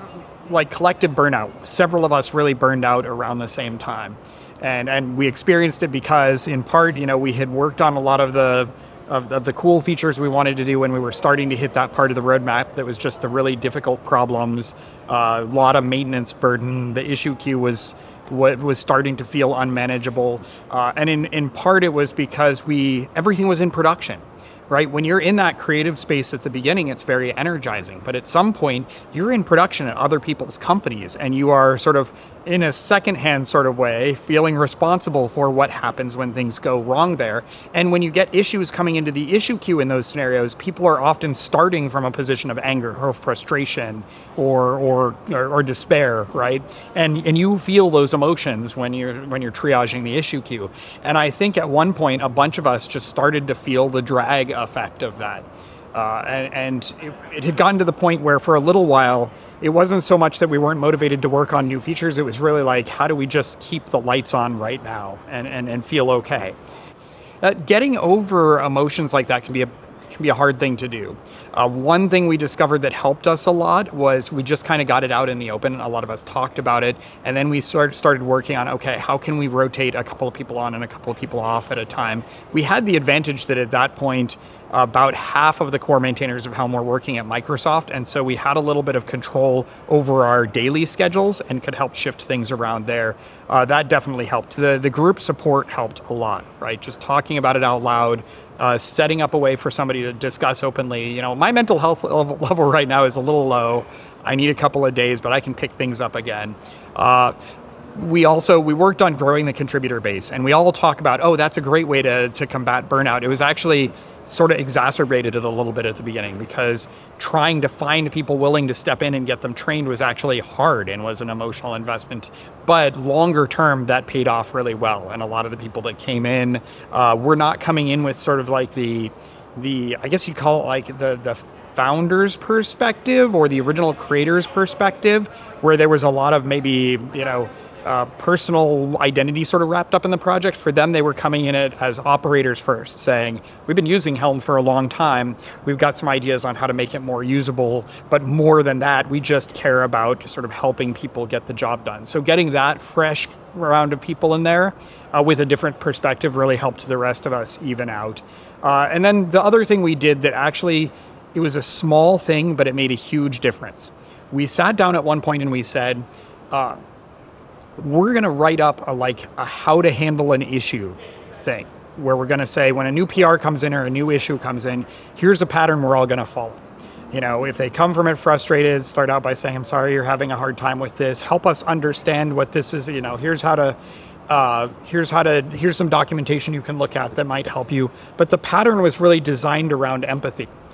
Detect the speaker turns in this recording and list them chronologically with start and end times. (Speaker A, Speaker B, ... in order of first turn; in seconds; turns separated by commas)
Speaker A: 0.4-66.5, Speaker A: 67.4-107.3, Speaker A: 107.9-166.8, Speaker A: 167.8-183.8, Speaker A: 184.3-190.5